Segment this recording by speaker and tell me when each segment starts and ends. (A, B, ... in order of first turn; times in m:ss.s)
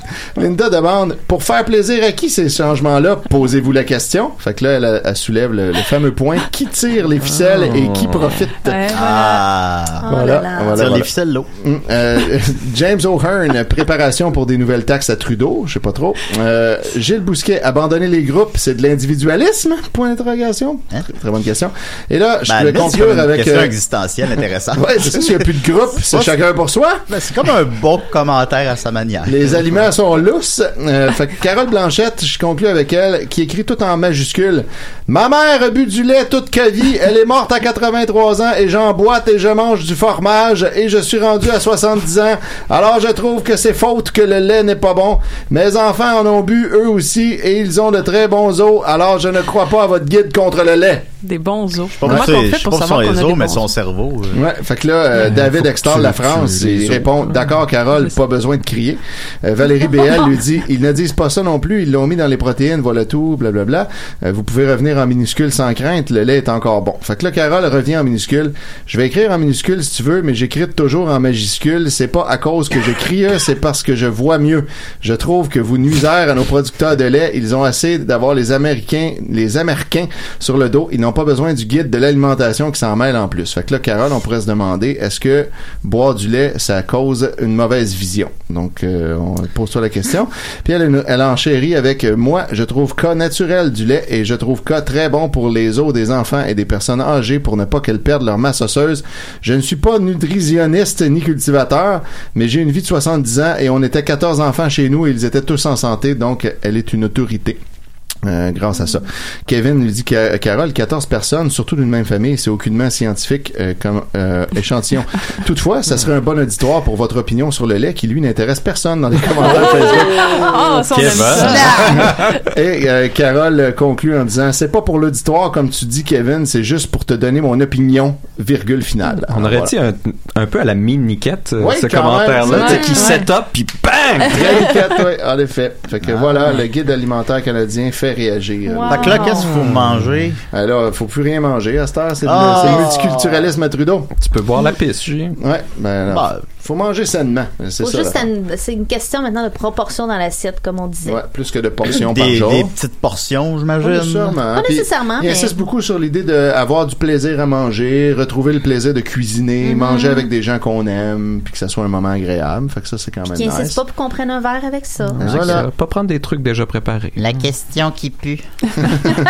0:00.4-0:08.9 A
0:07.3-0:08.5 B
0:08.6-0:09.4 C
0:08.9-0:10.1 D
0:10.0-0:10.9 E
0:10.1-0:23.7 A
0:10.7-0:11.5 D
0:22.5-0:25.5 D
0:24.7-0:27.0 A
0:27.1-0:29.7 D
0:29.3-0:51.1 A
0:51.2-0:53.6 C
0:52.0-0:54.4 D
0:54.3-1:47.6 A
0:55.2-0:57.4 B
1:48.2-2:00.8 A
1:59.4-2:02.4 C
2:00.8-2:02.4 B
2:01.3-2:02.1 D
2:01.4-2:09.7 A
2:09.3-2:14.7 B
2:11.6-2:13.2 A
2:12.5-2:13.2 C
2:14.2-2:19.4 A
2:18.8-2:19.4 C
2:18.9-2:20.4 D
2:19.0-2:19.4 E
2:20.5-2:24.1 A
2:22.2-2:23.5 D
2:24.2-2:25.4 B
2:25.4-2:28.3 A
2:26.1-2:26.4 D
2:27.8-2:31.2 E
2:31.0-2:32.7 A
2:31.8-2:34.4 D
2:33.8-2:43.8 A
2:34.5-2:35.6 E
2:39.6-2:40.3 E
2:43.3-2:45.2 E
2:45.1-2:47.5 B
2:45.2-2:45.7 A
2:47.2-2:48.5 D
2:48.8-2:49.2 A